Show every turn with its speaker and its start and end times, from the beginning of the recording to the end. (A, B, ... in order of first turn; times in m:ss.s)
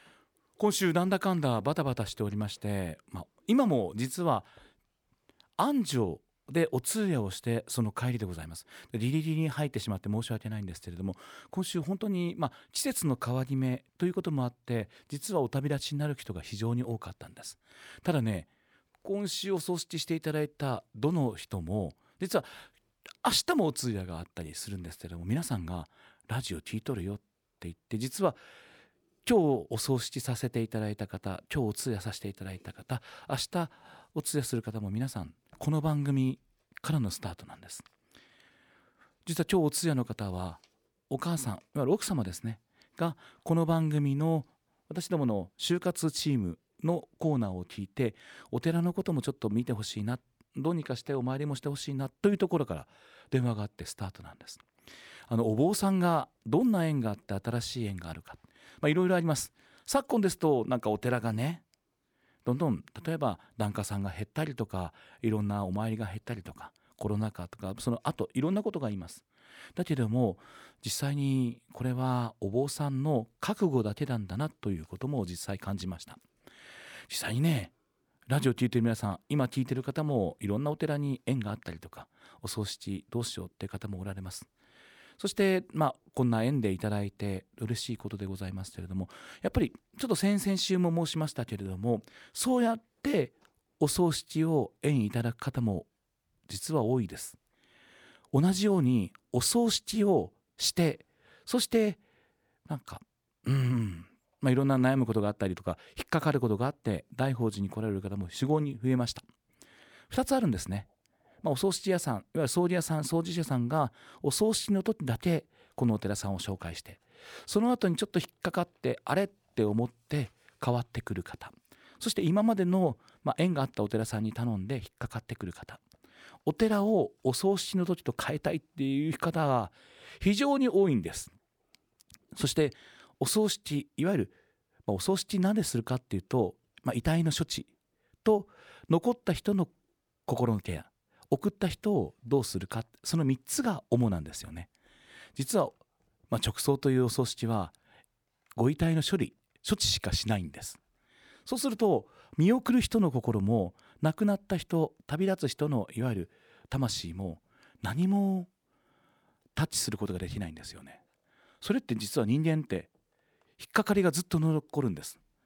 0:00.6-0:04.5 A
0:05.6-0:18.5 A
0:19.0-0:22.5 A
0:23.2-0:28.4 A
0:29.2-0:37.8 A
0:39.2-0:54.6 A
0:55.3-1:01.6 A
1:02.4-1:09.2 A
1:09.8-1:16.2 A
1:17.1-1:17.7 A
1:18.3-1:24.5 A
1:25.2-1:35.9 A
1:36.5-1:37.4 A
1:38.3-1:42.0 A
1:42.7-1:49.2 A
1:50.1-1:50.9 A
1:51.4-2:05.8 A
2:06.4-2:11.3 A
2:12.3-2:14.3 A
2:14.9-2:17.7 A
2:18.2-2:19.7 A
2:20.3-2:24.7 A
2:25.4-2:25.8 A
2:26.3-2:27.7 A
2:28.6-2:30.8 A
2:31.4-2:38.5 A
2:39.6-2:41.0 A
2:41.6-2:42.9 A
2:43.6-2:45.2 A